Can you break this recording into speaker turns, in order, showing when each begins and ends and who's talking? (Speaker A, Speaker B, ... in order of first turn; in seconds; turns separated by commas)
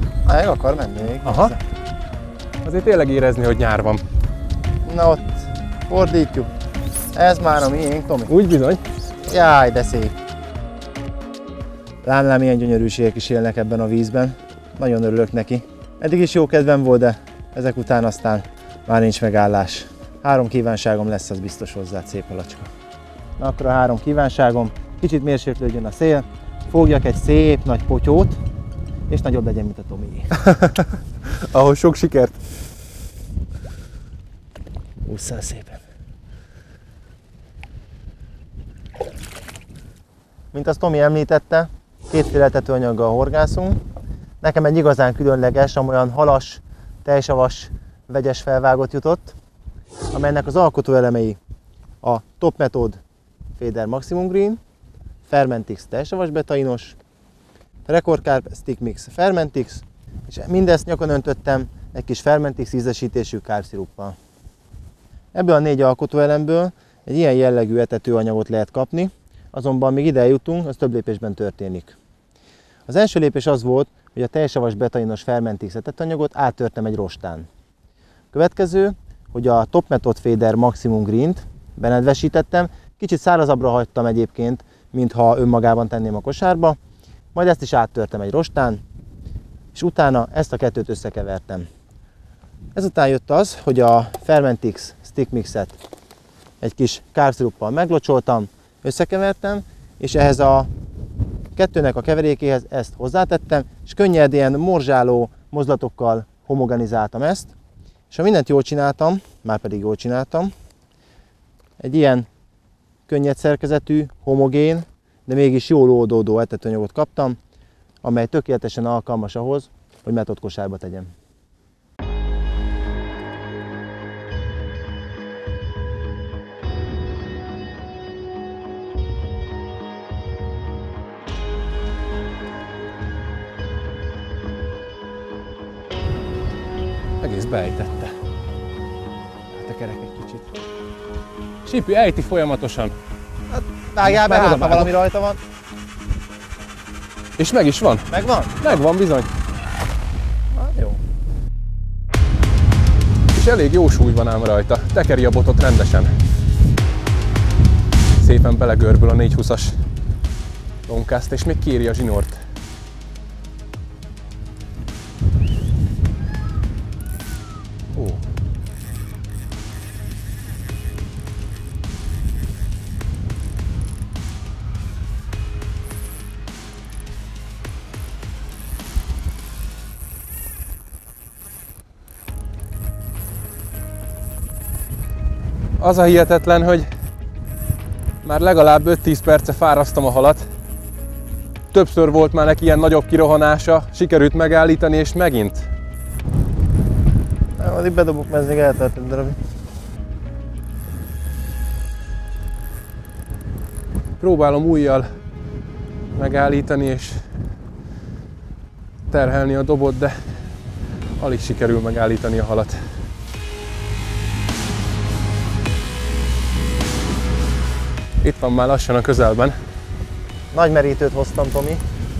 Speaker A: 0.3-1.6, Speaker B: 1.2-1.6, Speaker B: 2.6-4.0, Speaker A: 4.9-6.5, Speaker A: 7.1-8.3, Speaker B: 8.3-8.8, Speaker A: 9.3-10.2, Speaker A: 12.0-22.7, Speaker A: 23.4-28.4, Speaker A: 29.1-30.3, Speaker B: 30.4-32.4, Speaker A: 35.0-35.8, Speaker A: 40.5-43.8, Speaker A: 44.4-49.4, Speaker A: 50.1-51.4, Speaker A: 52.0-53.0, Speaker A: 53.6-54.6, Speaker A: 55.3-57.0, Speaker A: 57.9-64.2, Speaker A: 65.3-72.0, Speaker A: 72.9-77.5, Speaker A: 78.3-86.8, Speaker A: 87.3-88.8, Speaker A: 89.7-91.7, Speaker A: 92.8-95.8, Speaker A: 96.6-100.7, Speaker A: 101.5-107.5, Speaker A: 108.1-110.5, Speaker A: 111.8-112.3, Speaker A: 113.1-117.4, Speaker A: 118.0-121.1, Speaker B: 137.2-138.1, Speaker B: 139.5-140.5, Speaker B: 141.7-143.0, Speaker A: 143.5-145.4, Speaker B: 144.0-144.9, Speaker B: 147.4-149.3, Speaker A: 148.1-148.7, Speaker A: 150.5-151.0, Speaker B: 153.3-156.2, Speaker B: 158.2-159.8, Speaker B: 160.9-162.4, Speaker B: 168.0-168.2, Speaker B: 185.8-186.9, Speaker B: 188.2-190.4, Speaker B: 191.7-195.7, Speaker A: 197.6-199.4, Speaker B: 204.2-205.1, Speaker B: 206.1-207.3, Speaker B: 209.1-210.2, Speaker B: 211.2-212.8, Speaker B: 218.2-219.6, Speaker A: 220.5-221.8